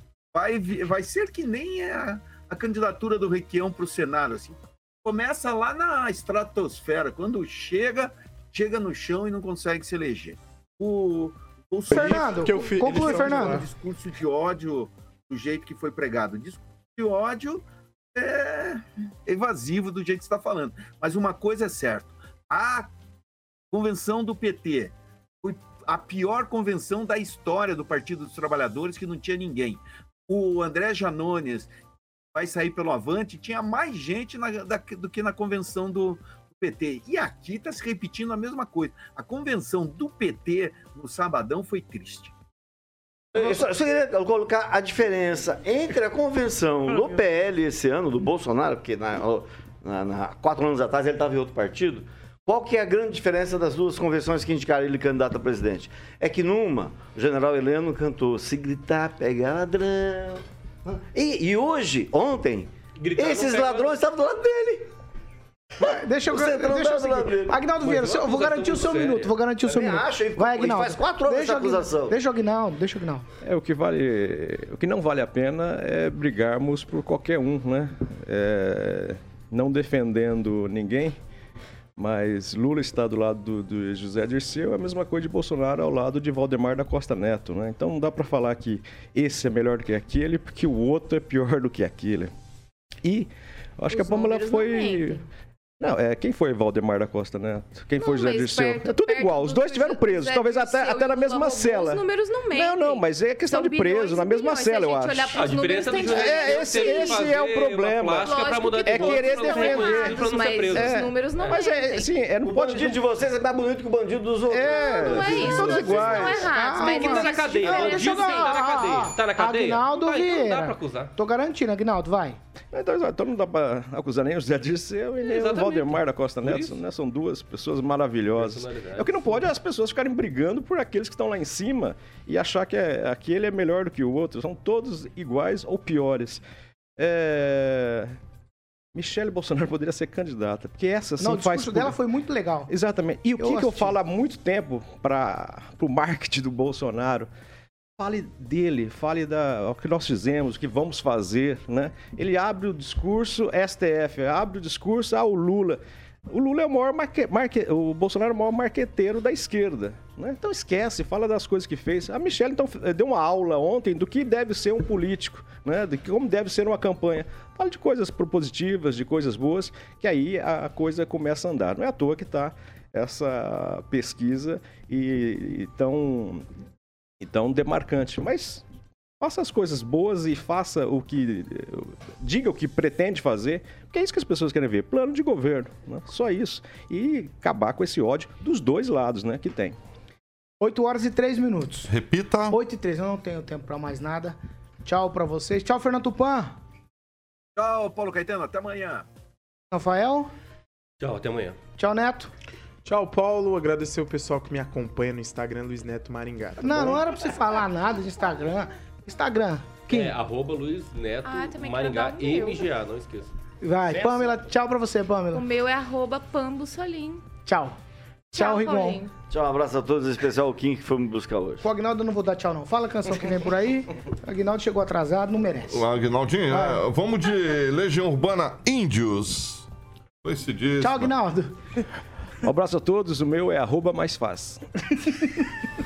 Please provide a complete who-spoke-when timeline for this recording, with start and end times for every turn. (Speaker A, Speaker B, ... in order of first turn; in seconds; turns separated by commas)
Speaker A: 0.3-22.9, Speaker B: 11.9-13.7, Speaker C: 11.9-13.6, Speaker A: 23.7-31.7, Speaker A: 32.3-42.3, Speaker D: 43.3-64.9, Speaker E: 63.0-64.0, Speaker D: 65.8-67.6, Speaker C: 65.8-73.2, Speaker E: 67.8-69.3, Speaker D: 69.6-72.2, Speaker F: 73.4-81.2, Speaker F: 82.0-92.3, Speaker F: 93.0-95.2, Speaker G: 93.9-95.2, Speaker F: 95.8-108.3, Speaker G: 98.0-107.3, Speaker E: 105.3-111.6, Speaker G: 108.2-112.1, Speaker F: 108.8-113.0, Speaker D: 112.4-115.9, Speaker F: 114.5-116.5, Speaker G: 114.6-118.6, Speaker C: 115.9-122.4, Speaker E: 116.8-121.1, Speaker F: 122.7-136.4, Speaker E: 125.2-126.8, Speaker E: 128.4-129.4, Speaker F: 137.0-138.1, Speaker F: 138.9-142.0, Speaker C: 141.2-142.7, Speaker F: 142.7-147.3, Speaker C: 143.4-143.9, Speaker F: 148.0-176.4, Speaker F: 177.2-178.6, Speaker F: 179.2-189.8, Speaker C: 190.6-191.9, Speaker H: 191.9-192.6, Speaker C: 192.5-196.6, Speaker A: 197.6-199.1, Speaker C: 199.7-200.3, Speaker E: 201.0-201.6, Speaker C: 201.8-202.3, Speaker B: 202.8-207.0, Speaker C: 206.6-210.1, Speaker E: 209.9-213.3, Speaker G: 211.2-212.7, Speaker C: 213.6-215.4, Speaker G: 215.3-217.2, Speaker C: 217.4-217.8, Speaker C: 218.3-219.0, Speaker G: 218.3-219.1, Speaker D: 219.3-221.6, Speaker C: 221.6-225.8, Speaker H: 225.7-229.7, Speaker C: 226.5-226.8, Speaker H: 230.2-231.1, Speaker C: 230.8-231.6, Speaker F: 232.4-234.6, Speaker C: 235.0-235.3